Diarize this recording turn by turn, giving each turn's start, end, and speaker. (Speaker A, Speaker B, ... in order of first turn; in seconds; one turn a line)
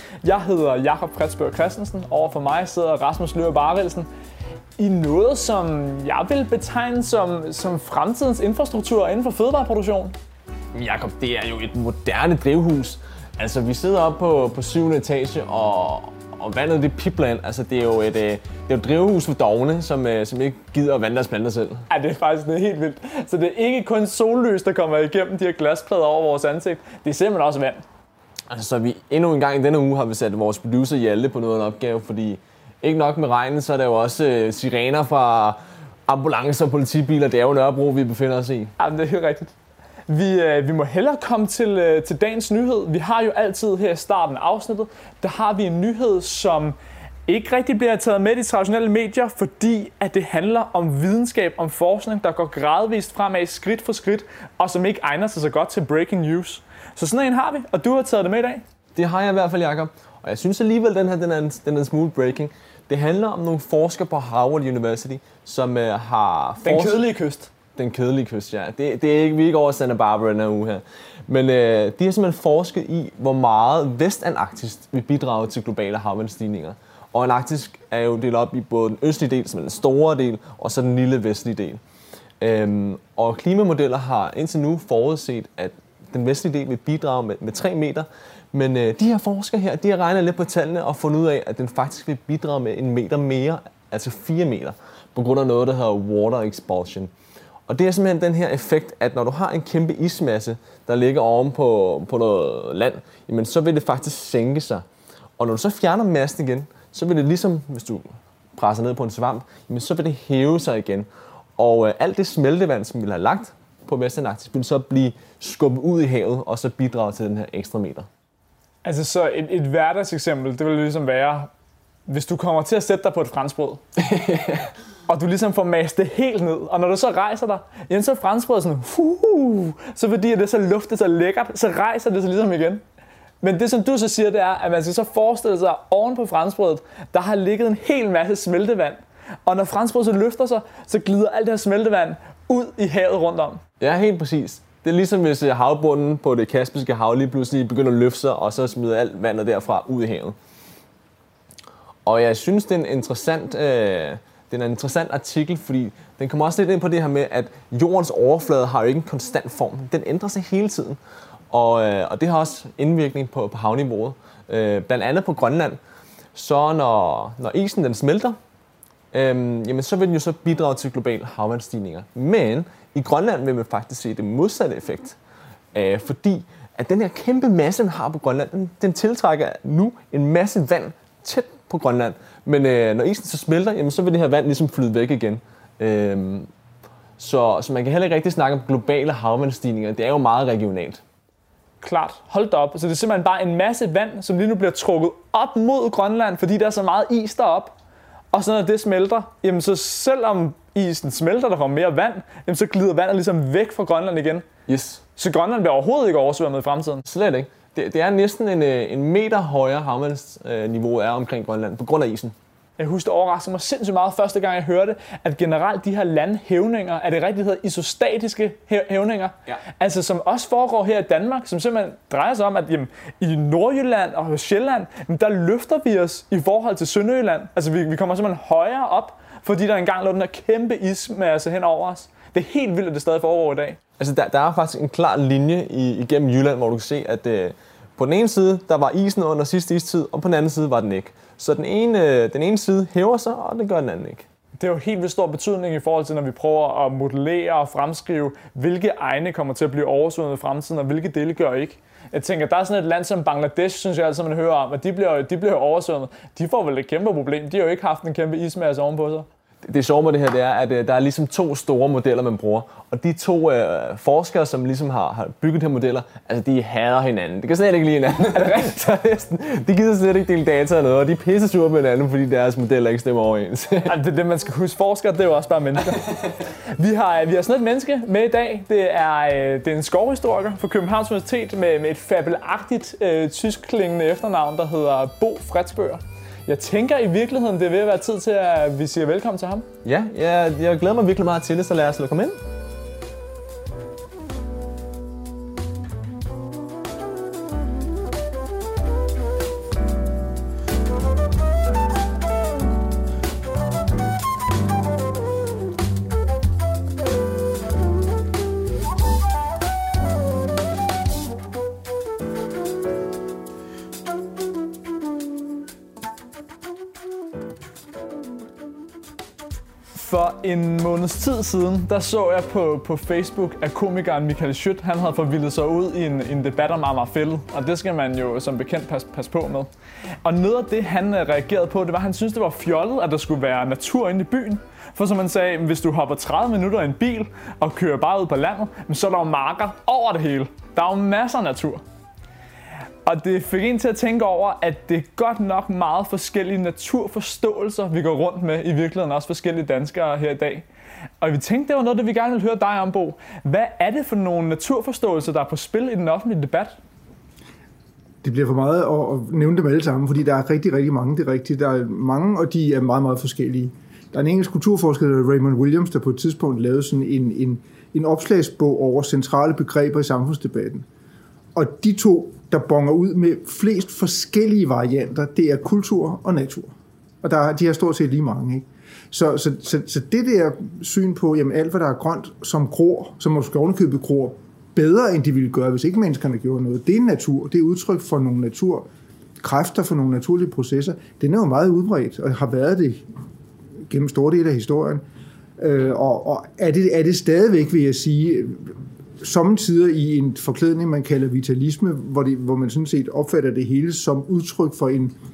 Speaker A: 0.2-4.1
Speaker A: 4.8-10.1
Speaker B: 10.7-21.9
Speaker A: 21.9-27.8
Speaker B: 28.5-38.7
Speaker A: 38.8-39.5
Speaker A: 40.1-46.8
Speaker A: 47.3-58.6
Speaker B: 59.0-67.0
Speaker A: 66.6-67.5
Speaker B: 67.8-81.8
Speaker B: 82.4-97.1
Speaker B: 97.7-104.8
Speaker B: 105.4-111.1
Speaker B: 111.6-118.1
Speaker A: 118.8-121.5
Speaker A: 122.1-123.8
Speaker B: 124.0-124.7
Speaker A: 125.1-132.8
Speaker A: 133.4-143.6
Speaker B: 143.8-150.4
Speaker B: 152.1-161.0
Speaker B: 161.5-165.8
Speaker B: 166.3-168.4
Speaker B: 169.1-175.2
Speaker B: 175.7-186.5
Speaker B: 187.2-191.0
Speaker A: 191.8-197.8
Speaker A: 198.3-204.5
Speaker B: 204.7-205.0
Speaker A: 205.2-207.1
Speaker B: 207.1-212.3
Speaker A: 212.8-233.8
Speaker B: 234.0-244.2
Speaker A: 244.6-259.3
Speaker B: 259.6-273.9
Speaker A: 268.3-268.8
Speaker A: 273.9-276.2
Speaker A: 276.7-289.7
Speaker B: 289.9-292.4
Speaker A: 319.9-329.7
Speaker A: 330.2-341.8
Speaker A: 343.1-350.7
Speaker A: 351.2-356.8
Speaker C: 358.2-370.9
Speaker C: 371.6-388.9
Speaker C: 389.4-393.1
Speaker C: 393.9-395.0
Speaker C: 395.6-405.1